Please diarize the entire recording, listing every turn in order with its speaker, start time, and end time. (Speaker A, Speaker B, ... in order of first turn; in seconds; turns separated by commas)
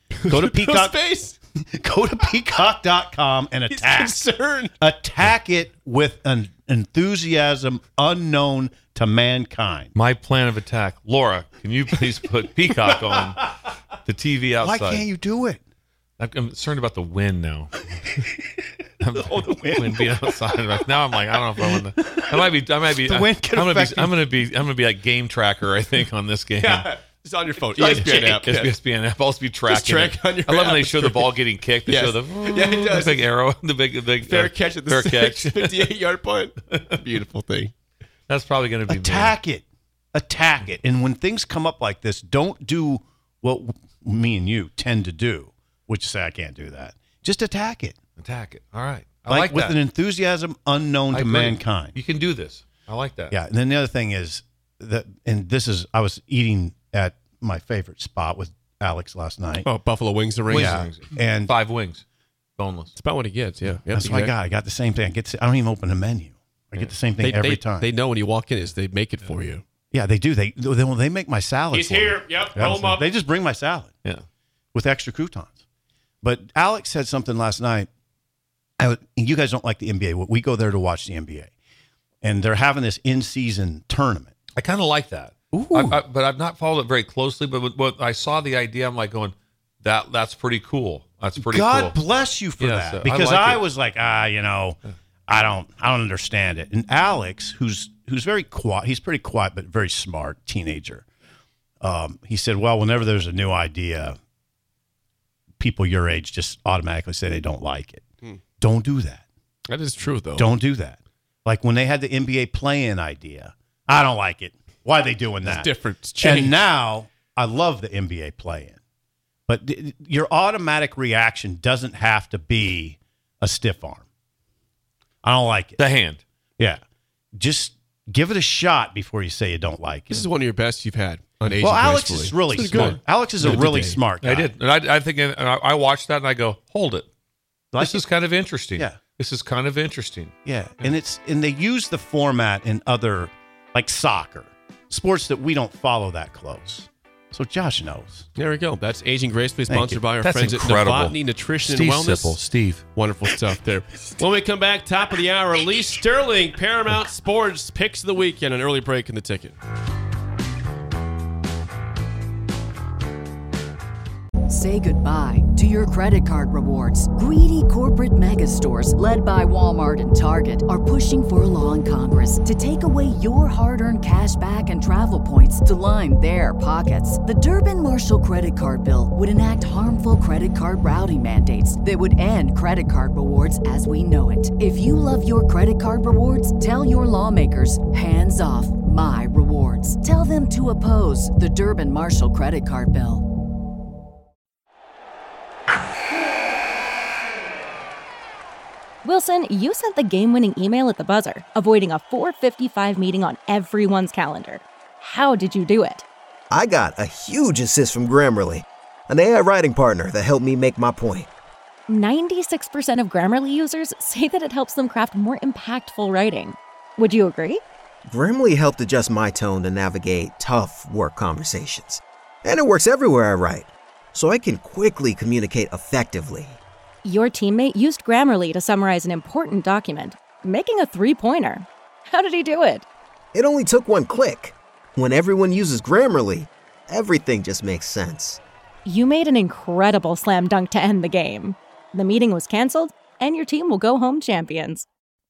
Speaker A: 0.2-1.3, Speaker B: 0.3-1.1, Speaker B: 1.6-4.2, Speaker A: 3.7-4.7, Speaker B: 4.8-9.9, Speaker C: 9.9-15.1, Speaker B: 14.6-15.6, Speaker C: 16.2-17.9, Speaker C: 19.0-26.9, Speaker B: 22.2-22.5, Speaker B: 23.0-24.1, Speaker A: 26.6-28.7, Speaker C: 27.7-35.9, Speaker A: 29.7-31.3, Speaker A: 31.9-33.2, Speaker A: 34.2-37.7, Speaker C: 38.3-39.4, Speaker B: 38.9-48.0, Speaker C: 48.2-49.8, Speaker B: 49.3-52.0, Speaker C: 51.1-53.4, Speaker B: 53.3-59.7, Speaker A: 59.6-60.9, Speaker C: 60.5-62.0, Speaker B: 60.5-61.5, Speaker C: 62.6-62.9, Speaker A: 62.9-64.3, Speaker B: 63.9-67.9, Speaker A: 67.2-69.6, Speaker B: 69.9-73.9, Speaker A: 71.7-73.0, Speaker B: 74.7-75.6, Speaker B: 76.2-77.9, Speaker B: 78.8-81.5, Speaker B: 82.2-84.3, Speaker C: 84.5-91.9, Speaker B: 85.5-86.0, Speaker B: 91.4-101.0, Speaker C: 92.6-93.6, Speaker B: 101.8-104.2, Speaker B: 105.6-108.0, Speaker B: 108.6-109.2, Speaker A: 109.7-110.5, Speaker B: 110.4-118.8, Speaker A: 115.4-116.6, Speaker B: 119.5-124.0, Speaker B: 125.2-125.8, Speaker C: 125.8-126.2, Speaker B: 127.3-130.3, Speaker A: 130.1-134.0, Speaker B: 131.6-134.5, Speaker C: 132.7-133.6, Speaker C: 134.2-137.1, Speaker C: 137.7-140.9, Speaker B: 137.8-138.0, Speaker B: 140.4-148.3, Speaker A: 148.3-152.4, Speaker B: 149.7-150.0, Speaker C: 150.2-152.8, Speaker A: 152.9-159.6, Speaker D: 164.5-193.2, Speaker E: 199.0-206.0, Speaker F: 206.5-211.3, Speaker E: 211.9-217.6, Speaker F: 218.1-226.6, Speaker E: 227.0-232.9, Speaker F: 233.3-238.4, Speaker E: 238.9-244.9